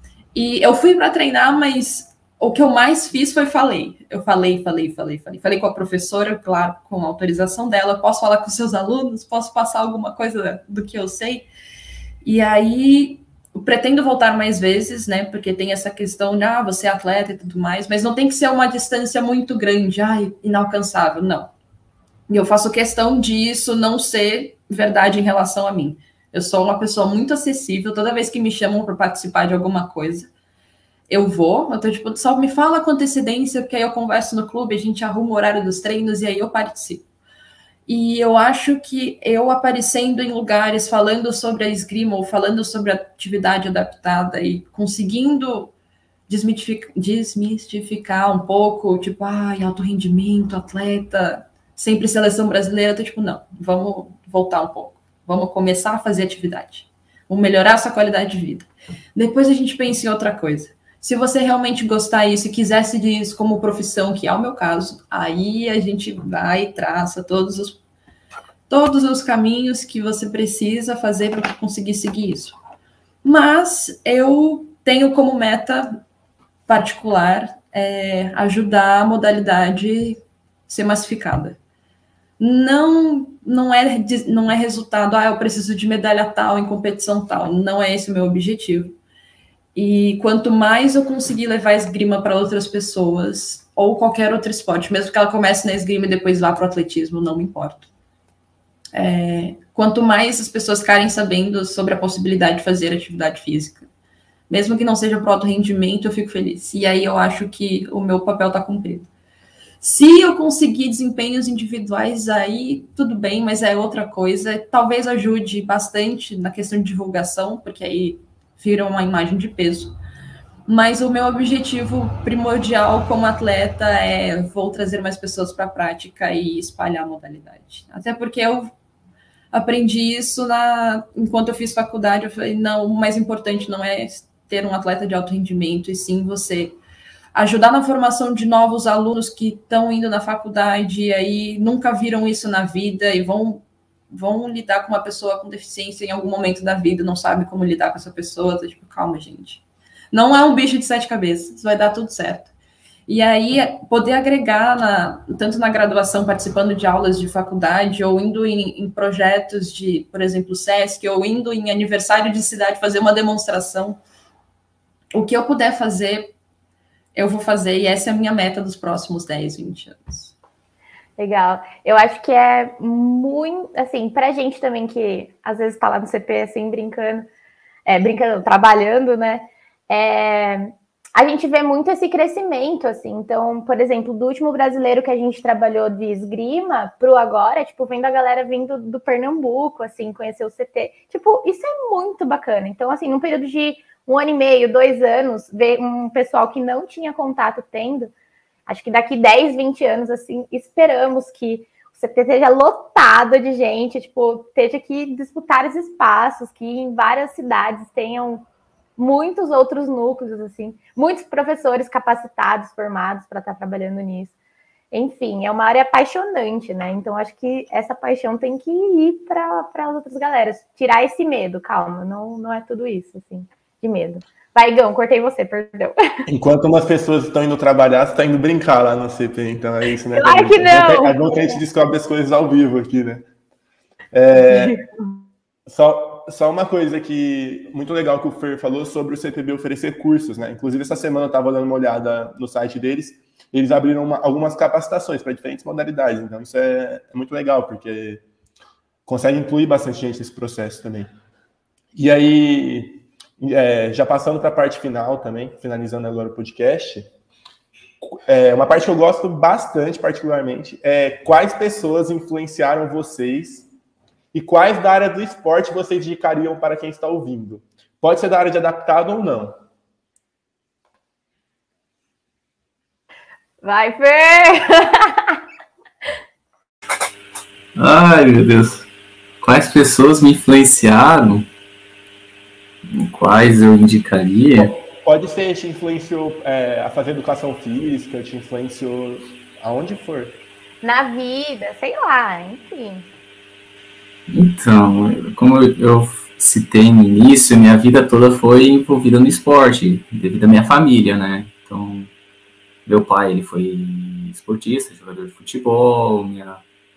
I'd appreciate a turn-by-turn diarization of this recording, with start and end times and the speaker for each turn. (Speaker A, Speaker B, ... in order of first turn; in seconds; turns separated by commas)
Speaker A: 0.3-11.5, Speaker A: 12.2-21.5, Speaker A: 22.3-30.3, Speaker A: 31.1-37.0, Speaker A: 37.9-45.7, Speaker A: 46.3-67.8, Speaker A: 68.7-72.5, Speaker A: 73.2-76.0, Speaker A: 76.7-81.6, Speaker A: 82.4-89.0, Speaker A: 89.7-97.9, Speaker A: 98.9-103.8, Speaker A: 104.5-109.1, Speaker A: 109.8-120.0, Speaker A: 120.7-128.7, Speaker A: 129.5-136.8, Speaker A: 137.3-152.5, Speaker A: 153.1-164.0, Speaker A: 165.1-166.3, Speaker A: 167.1-170.3, Speaker B: 171.2-177.3, Speaker B: 177.8-198.1, Speaker B: 198.7-208.4, Speaker B: 209.0-214.3, Speaker B: 214.9-226.2, Speaker C: 226.3-233.2, Speaker B: 230.1-231.6, Speaker C: 234.1-234.8, Speaker B: 234.4-235.1, Speaker C: 235.7-248.2, Speaker C: 249.1-251.1, Speaker C: 251.9-257.1, Speaker C: 258.2-263.7, Speaker C: 264.3-269.5, Speaker B: 273.6-275.4, Speaker D: 277.8-278.9, Speaker D: 279.4-281.5, Speaker D: 282.9-284.7, Speaker C: 284.6-290.4, Speaker B: 290.8-293.1, Speaker D: 294.3-302.1, Speaker D: 302.9-306.6